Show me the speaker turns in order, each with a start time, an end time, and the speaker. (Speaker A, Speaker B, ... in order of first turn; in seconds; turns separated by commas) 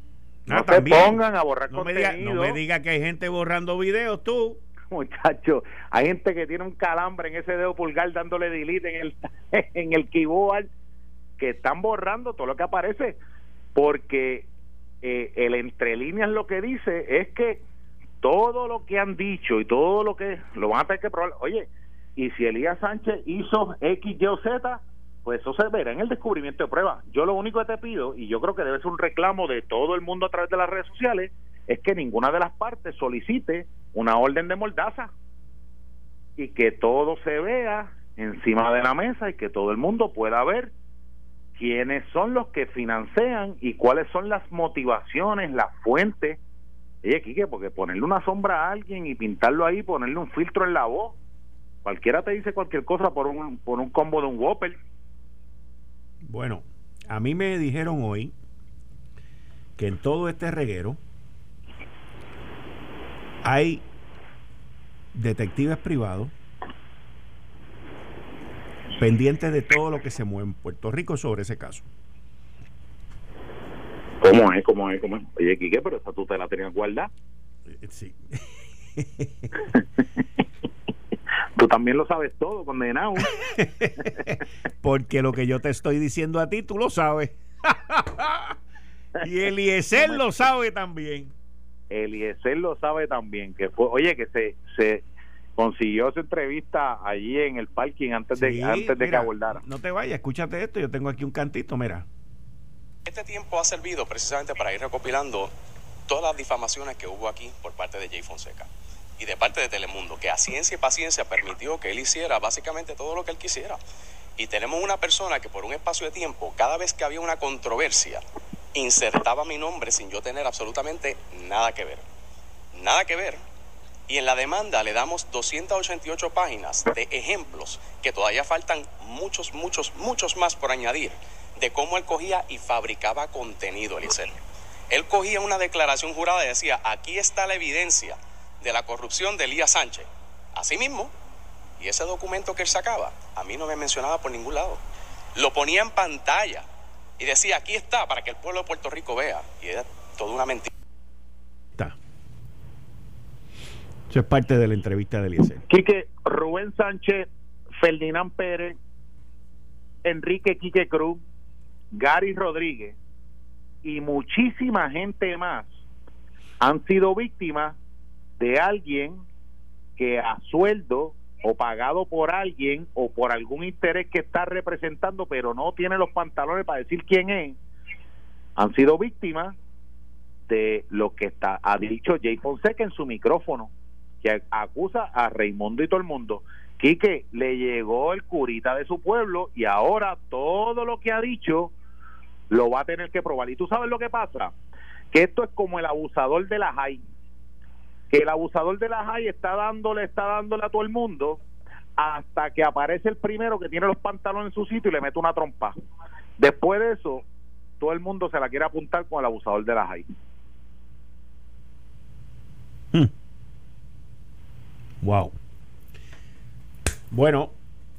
Speaker A: 0.5-4.6, Speaker B: 0.5-2.6, Speaker B: 4.9-10.7, Speaker B: 11.4-13.2, Speaker B: 13.7-14.5, Speaker B: 15.0-17.6, Speaker B: 18.2-35.1, Speaker B: 36.4-40.7, Speaker B: 41.6-46.4, Speaker B: 47.0-51.2, Speaker B: 51.8-54.8, Speaker A: 56.2-58.3, Speaker A: 59.8-61.0, Speaker A: 63.4-63.8, Speaker A: 65.1-66.3, Speaker A: 69.0-71.9, Speaker B: 74.2-77.1, Speaker A: 77.7-78.4, Speaker A: 79.0-79.5, Speaker B: 81.5-83.4, Speaker A: 83.3-88.6, Speaker A: 89.2-91.3, Speaker B: 90.0-90.2, Speaker B: 91.9-95.0, Speaker B: 95.6-99.6, Speaker A: 98.3-102.0, Speaker C: 103.0-105.5, Speaker C: 106.1-113.8, Speaker C: 114.4-118.2, Speaker C: 118.7-122.0, Speaker C: 122.8-123.4, Speaker C: 124.1-134.4, Speaker C: 134.9-141.1, Speaker C: 141.8-144.8, Speaker C: 145.4-146.6, Speaker C: 147.2-150.7, Speaker A: 154.1-155.6, Speaker B: 155.7-157.3, Speaker B: 157.8-158.8, Speaker B: 160.1-161.2, Speaker B: 161.9-162.9, Speaker B: 163.8-165.7, Speaker B: 166.6-167.8, Speaker B: 168.4-169.2, Speaker B: 170.0-177.6, Speaker B: 178.6-179.6, Speaker B: 180.5-191.7, Speaker B: 192.5-194.5, Speaker B: 195.1-197.0, Speaker B: 198.1-201.4, Speaker B: 202.0-205.7, Speaker B: 206.4-207.2, Speaker B: 207.8-210.1, Speaker A: 215.0-215.3, Speaker A: 217.1-217.5